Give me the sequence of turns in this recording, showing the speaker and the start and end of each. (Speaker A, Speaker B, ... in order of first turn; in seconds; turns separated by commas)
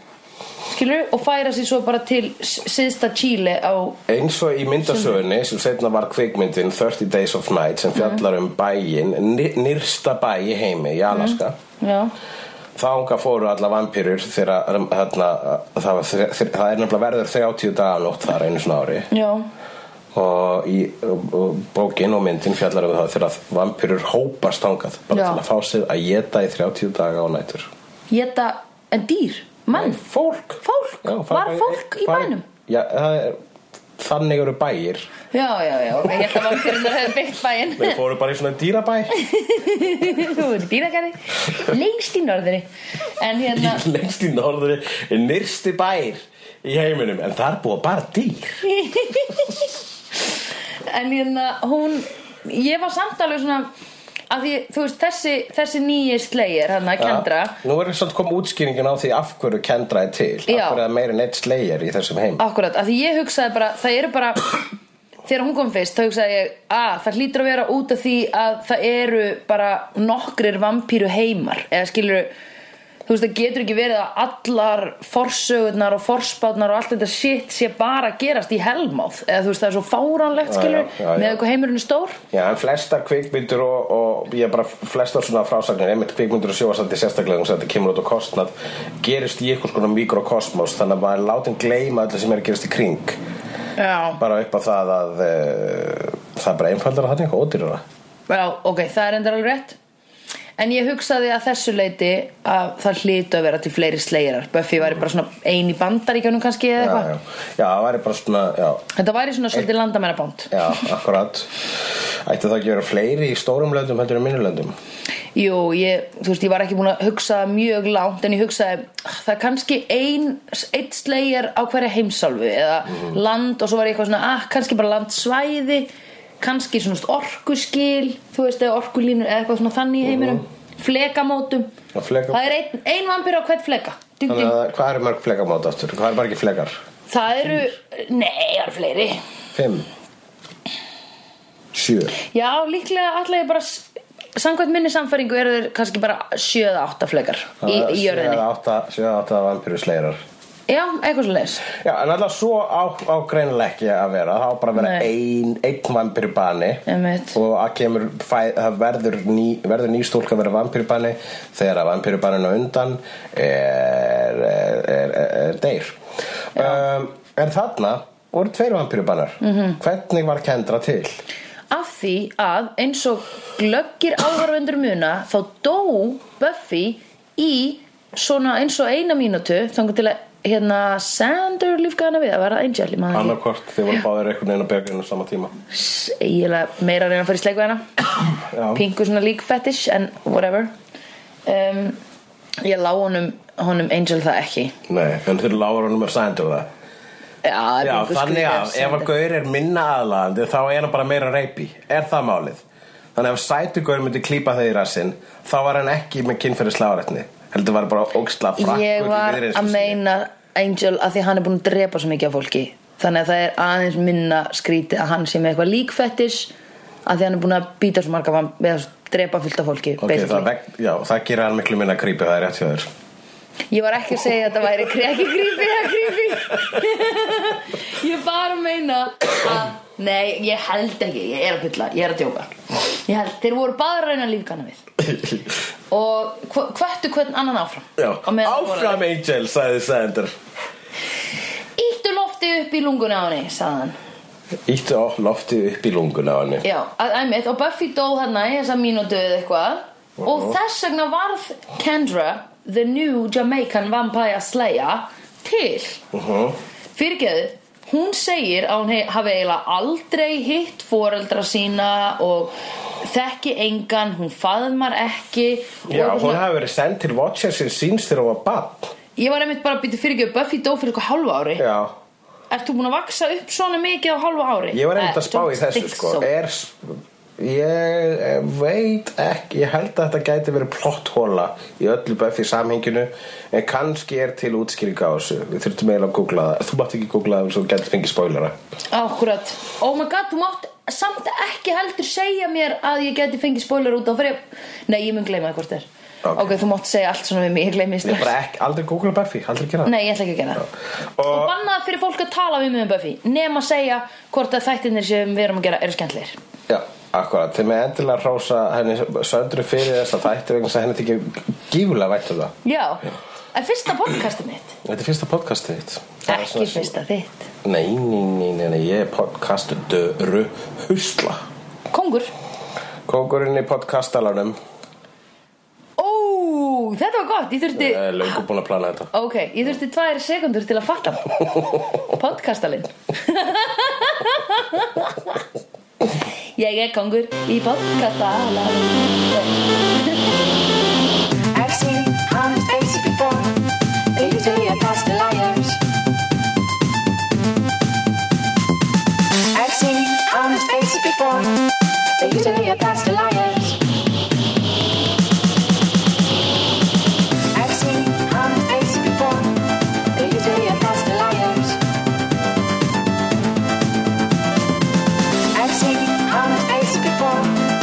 Speaker A: 0.7-4.0, Speaker B: 4.1-11.6, Speaker A: 11.1-12.1, Speaker B: 12.8-19.1, Speaker A: 19.1-19.5, Speaker B: 20.1-27.7, Speaker A: 25.1-25.4, Speaker A: 28.1-30.0, Speaker B: 29.7-33.4, Speaker A: 30.6-32.5, Speaker B: 34.0-35.1, Speaker A: 35.3-38.0, Speaker B: 36.0-36.9, Speaker B: 37.8-39.1, Speaker A: 39.1-42.6, Speaker A: 43.2-43.8, Speaker B: 43.5-48.6, Speaker A: 48.6-49.7, Speaker A: 50.9-53.7, Speaker A: 54.3-57.6, Speaker B: 57.0-62.4, Speaker A: 60.5-60.8, Speaker A: 62.4-64.6, Speaker A: 65.2-72.3, Speaker A: 73.0-82.2, Speaker B: 80.5-81.4, Speaker B: 82.3-93.2, Speaker A: 93.8-94.2, Speaker B: 94.2-97.8, Speaker A: 98.3-99.8, Speaker A: 100.6-107.1, Speaker B: 106.8-108.8, Speaker A: 108.9-110.8, Speaker B: 110.5-114.7, Speaker A: 115.3-125.9, Speaker A: 126.4-131.7, Speaker B: 130.0-130.4, Speaker B: 131.9-132.5, Speaker A: 132.3-134.5, Speaker B: 134.3-136.8, Speaker A: 137.1-139.2, Speaker B: 137.3-137.7, Speaker B: 139.5-139.9, Speaker B: 141.7-142.2, Speaker A: 142.2-148.4, Speaker B: 147.6-150.2, Speaker A: 150.7-151.7, Speaker B: 151.7-166.0, Speaker A: 154.8-155.1, Speaker A: 156.9-157.4, Speaker B: 166.5-171.2, Speaker A: 166.6-166.8, Speaker A: 169.4-169.8, Speaker A: 171.7-183.4, Speaker B: 183.1-185.5, Speaker A: 185.7-187.9, Speaker B: 188.5-188.8, Speaker A: 188.7-190.7, Speaker A: 191.4-192.0, Speaker A: 192.6-194.7, Speaker B: 194.9-196.7, Speaker A: 197.4-199.1, Speaker B: 197.8-202.6, Speaker B: 203.1-210.0, Speaker A: 208.6-216.5, Speaker A: 217.1-220.5, Speaker B: 220.0-222.9, Speaker A: 223.7-234.8, Speaker B: 235.0-235.5, Speaker A: 235.9-239.0, Speaker B: 238.0-240.3, Speaker A: 241.8-243.9, Speaker B: 244.7-246.6, Speaker A: 246.6-256.0, Speaker B: 250.2-250.6, Speaker B: 256.1-256.6, Speaker A: 256.9-266.4, Speaker B: 265.9-268.9, Speaker A: 269.2-271.6, Speaker B: 271.6-271.9, Speaker A: 272.5-276.3, Speaker B: 274.7-288.5, Speaker A: 288.9-298.3, Speaker B: 296.2-296.6, Speaker B: 298.0-299.9, Speaker A: 299.8-300.7, Speaker B: 301.2-301.5, Speaker A: 301.2-306.4, Speaker B: 306.7-312.5, Speaker A: 312.6-314.8, Speaker B: 314.8-316.9, Speaker A: 316.3-317.5, Speaker B: 317.6-321.4, Speaker A: 321.9-322.3, Speaker B: 323.1-324.6, Speaker A: 326.0-328.4, Speaker B: 327.8-329.1, Speaker A: 329.1-335.4, Speaker A: 336.6-340.2, Speaker A: 341.5-343.3, Speaker C: 342.0-343.4, Speaker A: 344.1-345.8, Speaker C: 349.7-351.5, Speaker A: 352.2-353.6, Speaker C: 352.6-353.5, Speaker C: 357.6-359.5, Speaker A: 358.5-359.2, Speaker A: 360.1-361.7, Speaker C: 361.1-361.4, Speaker C: 365.6-367.4, Speaker A: 366.4-367.4